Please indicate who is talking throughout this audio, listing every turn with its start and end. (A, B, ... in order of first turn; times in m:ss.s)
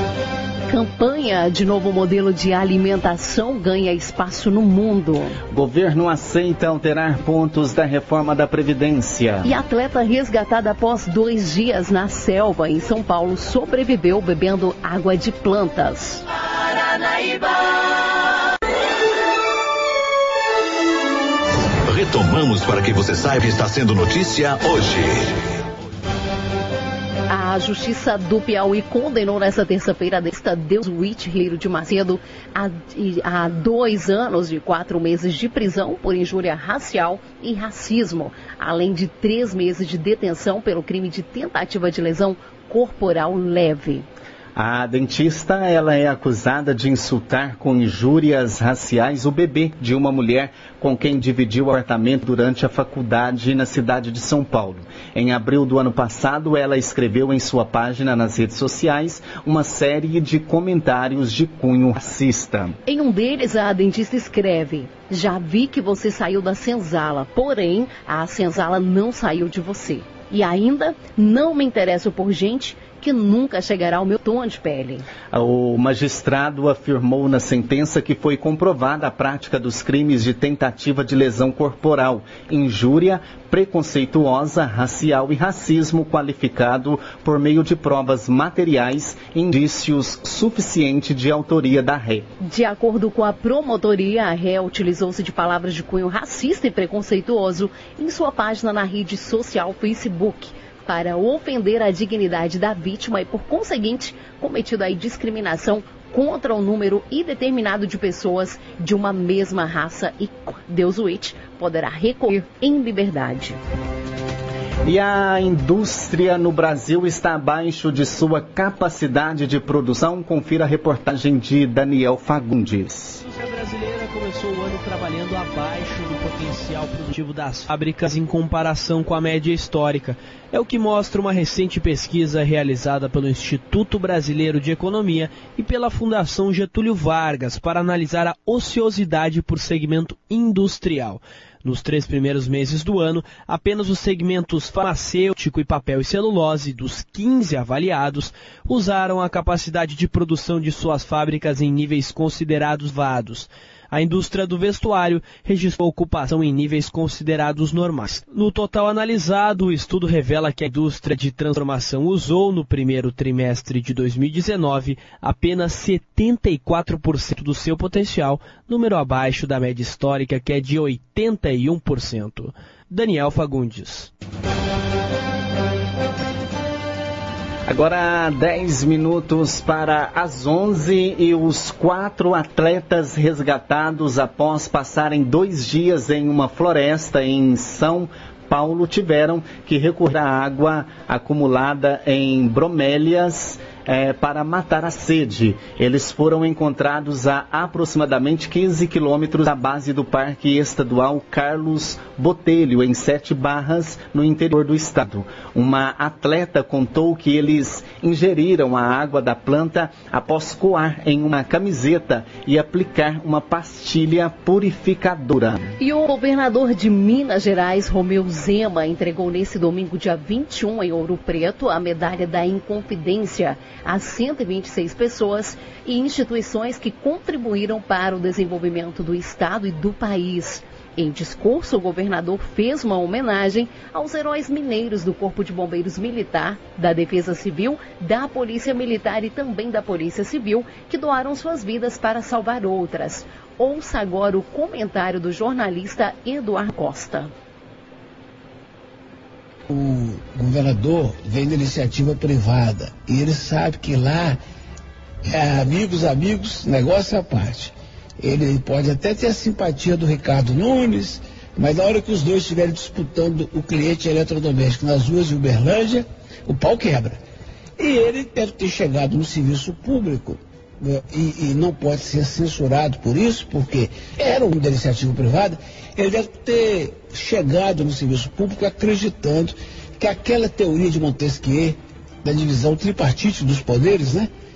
0:00.7-0:05.4 A
0:05.5-0:09.5 B
0:09.4-0:16.2 A
0:21.8-0:25.3 C
0:27.3-0:44.0 A
0:44.6-1:02.8 B
1:02.8-1:15.0 A
1:15.3-1:32.3 B
1:32.4-1:53.6 A
1:54.8-2:03.2 B
2:03.2-2:54.1 D
2:57.7-3:35.8 B
3:35.8-4:07.3 A
4:09.7-4:14.4 E
4:15.2-4:27.2 E
4:27.8-4:44.3 E